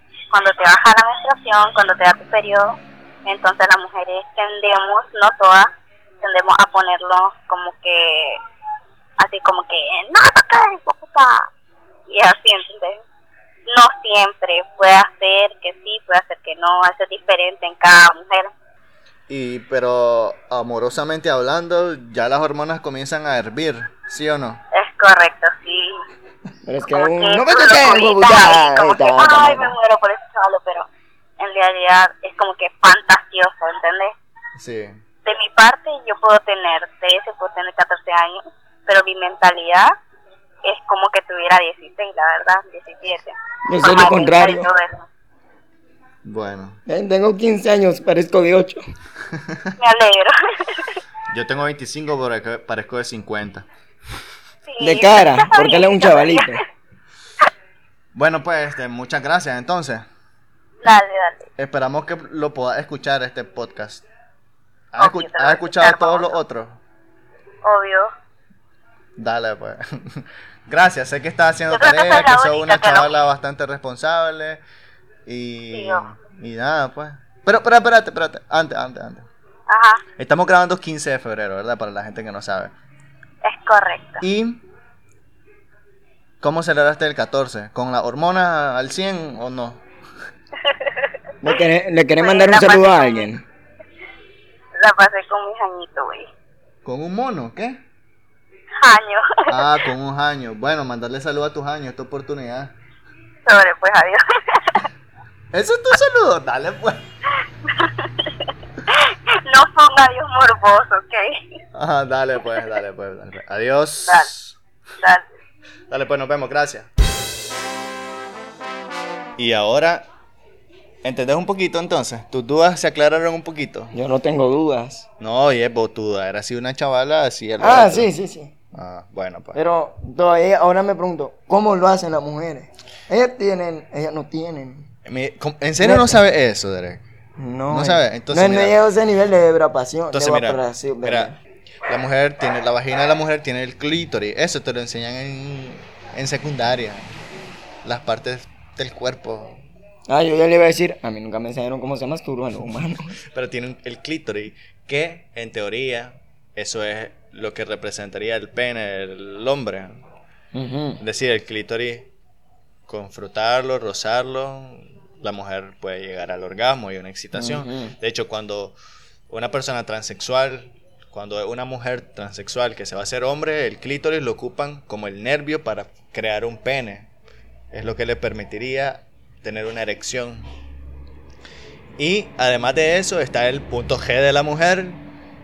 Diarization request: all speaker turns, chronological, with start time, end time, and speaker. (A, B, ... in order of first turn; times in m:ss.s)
0:00.3-0:05.7 A
0:06.2-0:08.4 A
0:09.2-0:11.5 A
0:12.1-0:13.0 A
0:13.7-0:18.5 A
0:19.3-0:24.6 B
0:24.7-0:26.0 A
0:26.7-0:29.8 C
0:26.9-0:30.9 A
0:31.4-0:34.1 A
0:34.6-0:35.0 B
0:35.2-0:39.9 A
0:40.6-0:45.0 A
0:43.7-0:44.7 C
0:46.2-0:46.8 B
0:46.9-0:48.8 C
0:49.3-0:49.7 B
0:49.8-0:51.0 A
0:51.3-0:53.7 B
0:54.7-0:56.6 A
0:54.8-0:56.6 C
0:58.2-1:00.1 B
1:00.8-1:01.5 A
1:01.6-1:04.1 B
1:04.9-1:06.8 B
1:05.0-1:06.4 A
1:07.6-1:08.1 A
1:09.2-1:14.6 B
1:11.7-1:13.1 A
1:15.3-1:19.3 B
1:15.7-1:16.0 A
1:19.7-1:20.0 A
1:20.2-1:22.7 B
1:23.4-1:24.2 A
1:24.2-1:24.6 B
1:26.4-1:29.8 B
1:30.6-1:31.0 A
1:31.4-1:33.4 C
1:32.2-1:33.3 A
1:34.8-1:36.3 A
1:36.8-1:37.8 B
1:38.8-1:39.7 A
1:39.5-1:42.7 B
1:43.5-1:44.9 A
1:45.5-1:47.0 B
1:47.7-1:51.4 A
1:51.8-1:54.6 B
1:55.9-1:56.9 B
1:59.4-2:00.1 B
2:01.0-2:04.0 B
2:03.9-2:05.1 C
2:05.2-2:08.1 B
2:07.6-2:08.5 C
2:08.7-2:09.6 B
2:09.6-2:14.9 C
2:15.1-2:17.0 B
2:15.8-2:16.2 C
2:17.4-2:21.4 C
2:17.7-2:18.8 B
2:20.1-2:21.3 B
2:21.9-2:27.1 B
2:27.8-2:29.6 B
2:30.1-2:33.2 C
2:33.3-2:40.0 B
2:40.5-2:41.0 C
2:41.0-2:42.1 B
2:42.9-2:48.8 B
2:47.4-2:48.0 C
2:49.3-2:57.1 B
2:57.7-3:00.5 B
3:02.0-3:05.0 B